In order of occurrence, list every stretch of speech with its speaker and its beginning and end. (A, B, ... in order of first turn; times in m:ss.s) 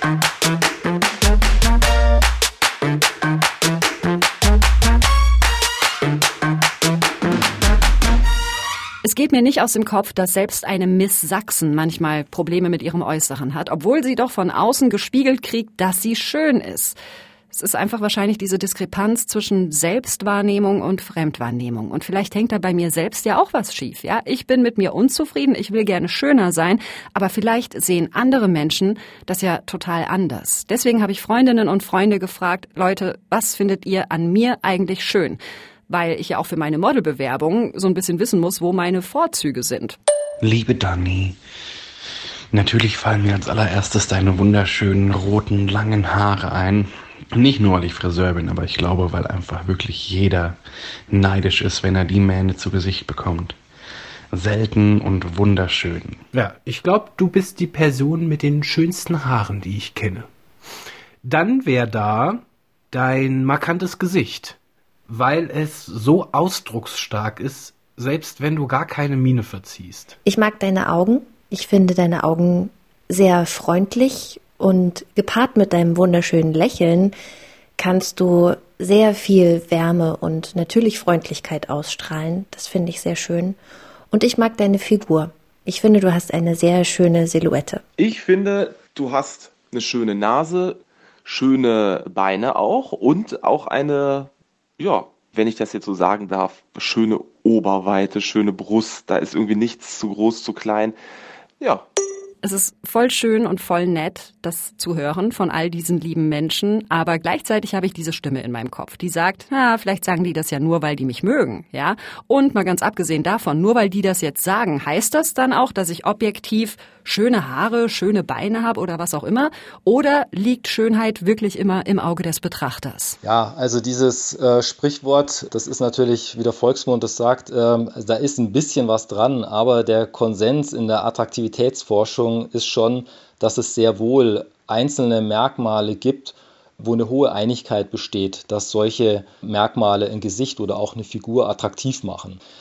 0:09.0-0:17.0 A
0:17.5-0:40.0 A
0:40.4-0:41.4 B
0:42.5-0:53.6 B
0:54.3-0:56.2 B
0:56.3-1:00.3 C
1:01.2-1:04.6 C
1:05.1-1:10.2 C
1:10.2-1:17.2 D
1:17.8-1:23.6 D
1:24.1-1:27.8 D
1:28.0-1:41.0 E
1:41.6-1:41.8 E
1:42.4-2:03.2 A
2:03.2-2:22.4 F